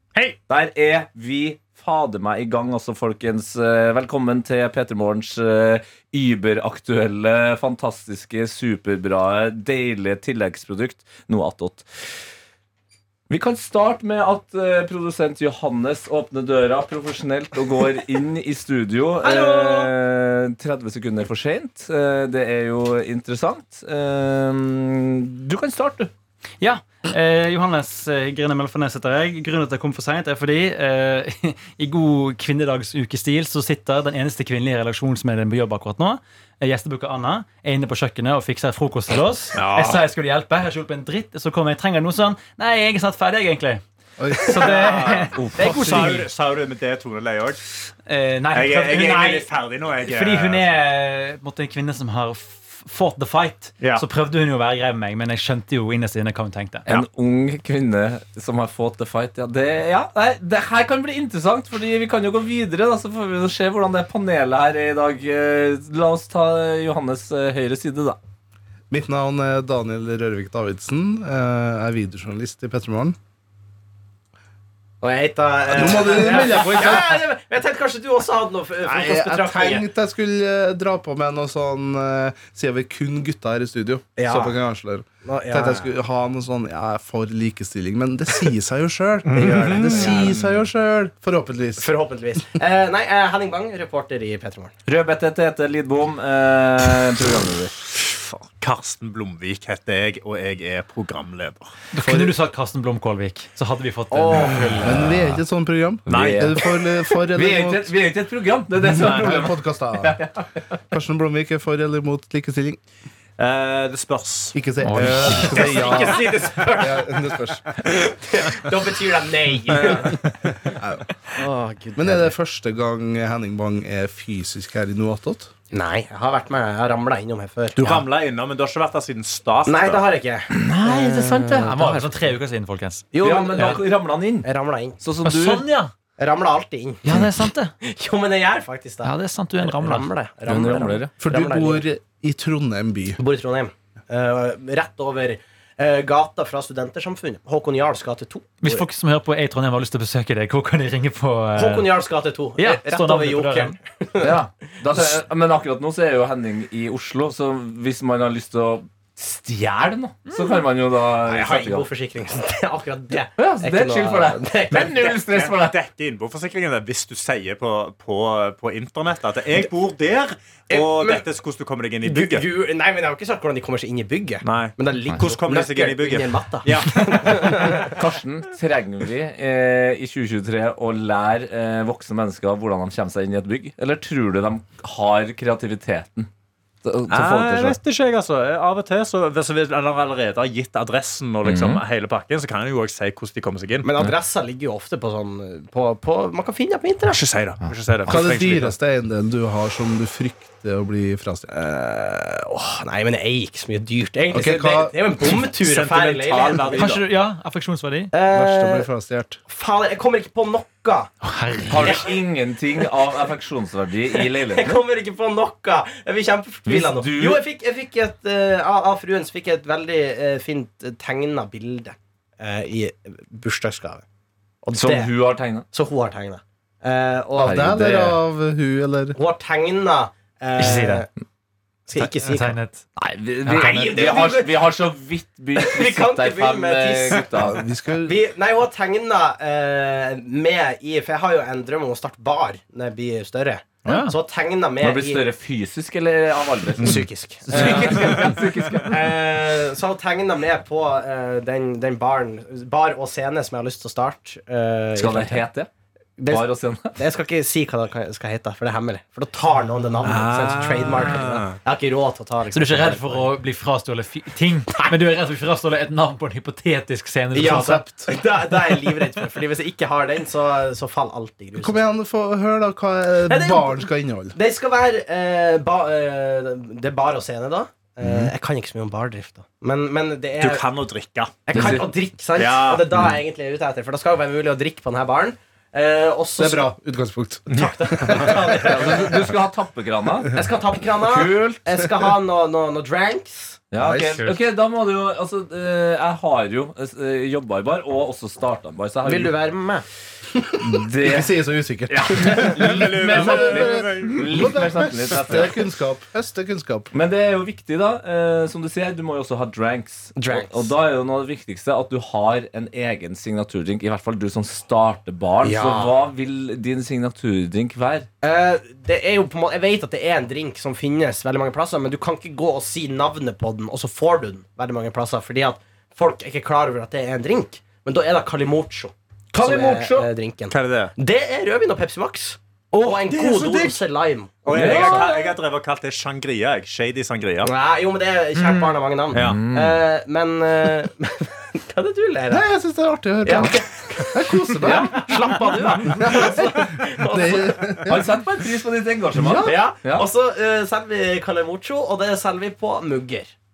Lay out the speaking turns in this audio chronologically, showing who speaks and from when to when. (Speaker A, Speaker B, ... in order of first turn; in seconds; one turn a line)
Speaker A: 0.5-11.8
Speaker A: 13.3-26.1
Speaker B: 19.2-19.9
Speaker B: 26.6-43.8
Speaker C: 39.5-40.1
Speaker D: 44.2-45.0
Speaker B: 44.4-46.3
Speaker C: 44.5-47.7
Speaker D: 45.6-46.2
Speaker B: 48.0-49.5
Speaker C: 48.5-50.7
Speaker B: 50.0-56.8
Speaker C: 53.8-54.0
Speaker A: 56.9-68.2
Speaker D: 68.9-73.2
Speaker E: 75.0-79.9
Speaker D: 75.7-77.2
Speaker D: 78.8-91.8
Speaker E: 84.2-84.6
Speaker E: 85.2-85.9
Speaker C: 89.3-90.4
Speaker E: 89.4-90.4
Speaker E: 91.8-94.7
Speaker A: 94.8-97.8
Speaker C: 97.9-101.7
Speaker B: 101.9-105.0
Speaker E: 104.1-104.9
Speaker D: 104.8-107.9
Speaker C: 106.1-106.6
Speaker A: 106.1-106.6
Speaker A: 107.3-110.8
Speaker D: 108.8-110.2
Speaker C: 108.9-109.2
Speaker D: 110.9-112.8
Speaker C: 113.4-116.5
Speaker D: 114.5-117.9
Speaker B: 114.8-115.6
Speaker E: 115.4-117.2
Speaker E: 118.0-120.2
Speaker C: 119.7-120.6
Speaker D: 120.7-121.0
Speaker E: 121.3-122.3
Speaker D: 122.0-125.5
Speaker E: 125.7-127.8
Speaker C: 127.8-130.0
Speaker E: 129.7-131.7
Speaker A: 130.5-132.2
Speaker B: 131.2-133.8
Speaker E: 133.1-133.8
Speaker A: 133.2-134.5
Speaker E: 134.4-135.0
Speaker A: 135.0-135.7
Speaker B: 135.2-135.9
Speaker E: 136.2-137.1
Speaker B: 137.0-137.7
Speaker E: 137.8-141.8
Speaker B: 139.0-140.1
Speaker A: 140.4-141.1
Speaker D: 141.2-143.2
Speaker E: 143.2-148.9
Speaker B: 148.6-151.9
Speaker E: 151.5-154.3
Speaker B: 152.6-153.8
Speaker A: 154.2-161.9
Speaker B: 160.3-160.6
Speaker E: 161.2-165.2
Speaker A: 163.4-165.8
Speaker C: 165.3-172.4
Speaker E: 170.7-171.2
Speaker E: 172.0-177.9
Speaker C: 174.4-177.7
Speaker A: 177.6-186.3
Speaker A: 186.8-187.8
Speaker C: 187.1-193.9
Speaker A: 191.4-191.8
Speaker E: 193.8-197.2
Speaker C: 197.1-198.7
Speaker D: 198.0-201.5
Speaker E: 201.5-206.9
Speaker D: 204.3-205.0
Speaker C: 205.2-207.1
Speaker B: 206.7-208.1
Speaker E: 208.1-208.9
Speaker D: 208.3-209.4
Speaker E: 209.4-211.1
Speaker B: 211.2-212.0
Speaker A: 211.7-214.8
Speaker E: 211.7-212.1
Speaker E: 214.2-224.0
Speaker A: 216.7-217.4
Speaker E: 224.6-225.1
Speaker A: 224.8-225.6
Speaker E: 225.6-228.1
Speaker D: 227.4-229.2
Speaker A: 227.5-228.0
Speaker E: 229.1-231.1
Speaker B: 230.6-231.1
Speaker E: 231.9-232.6
Speaker B: 232.0-232.8
Speaker A: 233.0-237.6
Speaker B: 233.4-234.2
Speaker E: 233.6-234.7
Speaker E: 235.5-237.3
Speaker D: 237.3-238.2
Speaker E: 238.0-245.2
Speaker B: 243.8-244.1
Speaker A: 244.8-249.1
Speaker E: 246.8-248.3
Speaker B: 247.5-248.0
Speaker E: 248.8-255.4
Speaker A: 254.9-255.7
Speaker E: 256.2-263.3
Speaker A: 256.3-257.0
Speaker C: 260.0-261.6
Speaker B: 262.5-267.9
Speaker E: 267.3-271.8
Speaker D: 267.5-267.9
Speaker D: 271.6-274.4
Speaker E: 273.2-280.6
Speaker D: 278.0-278.3
Speaker C: 280.4-281.8
Speaker E: 281.4-286.7
Speaker A: 281.5-281.9
Speaker C: 282.3-283.1
Speaker D: 286.4-288.4
Speaker E: 287.5-289.1
Speaker C: 287.5-288.3
Speaker A: 288.6-290.4
Speaker E: 290.3-293.6
Speaker A: 291.0-291.6
Speaker A: 293.7-299.3
Speaker D: 293.8-294.3
Speaker E: 299.0-299.8
Speaker D: 300.3-306.9
Speaker A: 300.6-301.3
Speaker C: 301.9-304.6
Speaker A: 302.1-305.6
Speaker A: 306.9-318.1
Speaker E: 310.2-310.7
Speaker E: 315.4-315.9
Speaker E: 318.2-335.2
Speaker A: 329.3-330.1
Speaker C: 330.5-330.9
Speaker C: 332.8-333.8
Speaker C: 334.4-337.5
Speaker A: 334.5-335.1
Speaker E: 337.4-342.5
Speaker B: 338.4-338.7
Speaker C: 339.1-339.4
Speaker A: 339.2-339.8
Speaker D: 342.3-345.0
Speaker E: 343.2-347.9
Speaker A: 344.6-345.4
Speaker D: 345.9-348.1
Speaker A: 347.9-350.1
Speaker D: 349.1-349.6
Speaker E: 349.4-353.3